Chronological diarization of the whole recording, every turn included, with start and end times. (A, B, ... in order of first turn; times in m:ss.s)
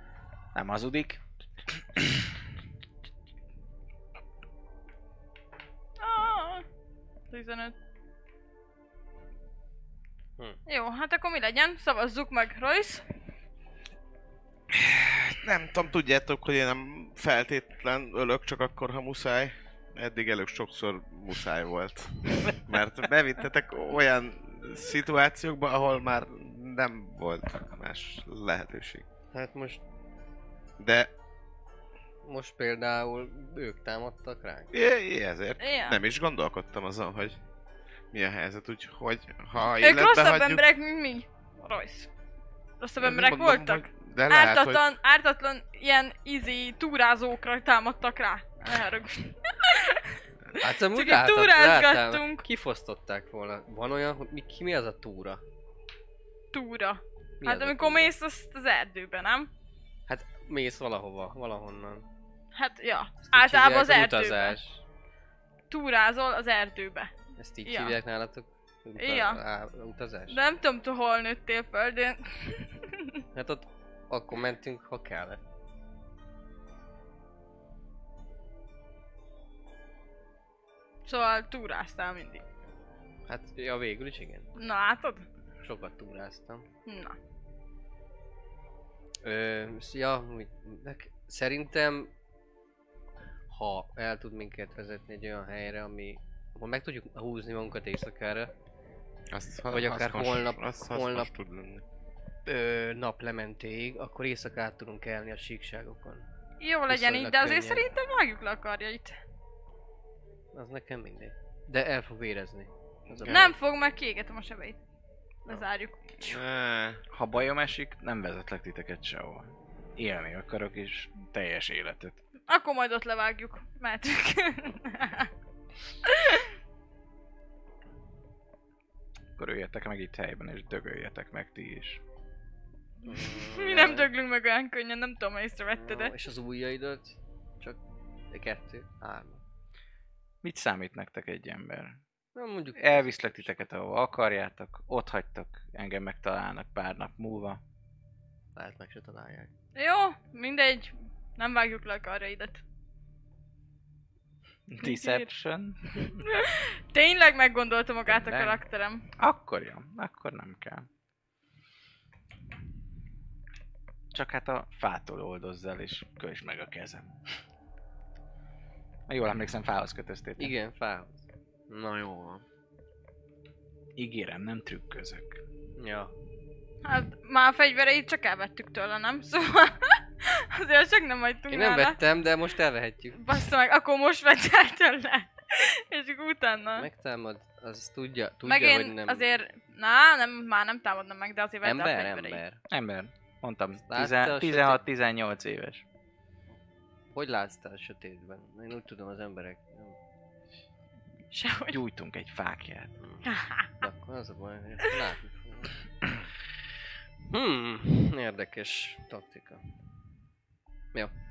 0:00.5-0:01.2 A
0:01.7-0:02.3 A
0:06.0-0:06.6 B
0:07.3-0:07.7 B
0:10.7-0:13.0 B
0:14.7-0:29.0 C
0:29.3-0:29.8 D
0:30.8-0:31.1 C
0:32.2-0:34.7 D
0:34.7-0:37.4 C
0:35.6-0:36.0 B
0:38.1-0:40.6 C
0:39.7-0:42.1 B
0:42.8-0:52.4 B
0:43.0-0:44.9 C
0:50.6-0:55.4 D
0:56.5-0:59.5 B
0:57.4-0:58.1 D
1:00.1-1:02.0 D
1:02.6-1:04.6 B
1:03.3-1:04.8 D
1:05.7-1:07.1 B
1:07.4-1:10.4 D
1:07.6-1:08.0 B
1:09.0-1:09.4 B
1:10.3-1:13.2 B
1:13.3-1:15.4 D
1:21.1-1:22.4 B
1:23.3-1:24.5 D
1:24.6-1:25.3 B
1:25.6-1:26.7 D
1:26.9-1:27.2 B
1:29.2-1:32.1 D
1:33.5-1:38.5 D
1:39.3-1:41.8 C
1:39.7-1:41.3 D
1:42.4-1:46.3 D
1:46.6-1:49.2 B
1:46.9-1:47.9 D
1:50.5-1:53.6 D
1:53.1-1:53.5 C
1:53.3-1:54.8 B
1:55.4-1:56.4 B
1:56.2-1:57.0 C
1:57.1-2:02.2 A
2:02.5-2:05.3 B
2:06.0-2:06.5 B
2:09.4-2:12.0 A
2:13.0-2:14.1 D
2:13.1-2:16.1 B
2:15.7-2:17.8 D
2:18.3-2:19.4 D
2:20.4-2:22.0 A
2:22.4-2:23.6 D
2:22.8-2:27.6 A
2:28.6-2:29.5 D
2:29.8-2:32.6 B
2:34.7-2:36.2 A
2:34.8-2:35.3 B
2:36.0-2:39.1 B
2:38.1-2:38.6 A
2:39.2-2:40.9 A
2:44.1-2:47.2 A
2:49.1-2:50.6 A
2:50.4-2:52.4 D
2:54.0-2:55.4 A
2:55.8-2:56.1 D
2:56.8-3:02.0 B
3:01.5-3:03.2 D
3:03.2-3:06.9 B
3:06.8-3:09.3 D
3:08.4-3:12.4 B
3:11.6-3:12.6 D
3:12.7-3:15.8 A
3:13.9-3:14.8 D
3:17.1-3:20.0 D
3:21.3-3:21.8 B
3:21.7-3:23.0 A
3:23.0-3:23.3 D
3:23.2-3:23.7 B
3:23.8-3:25.8 D
3:27.3-3:29.8 D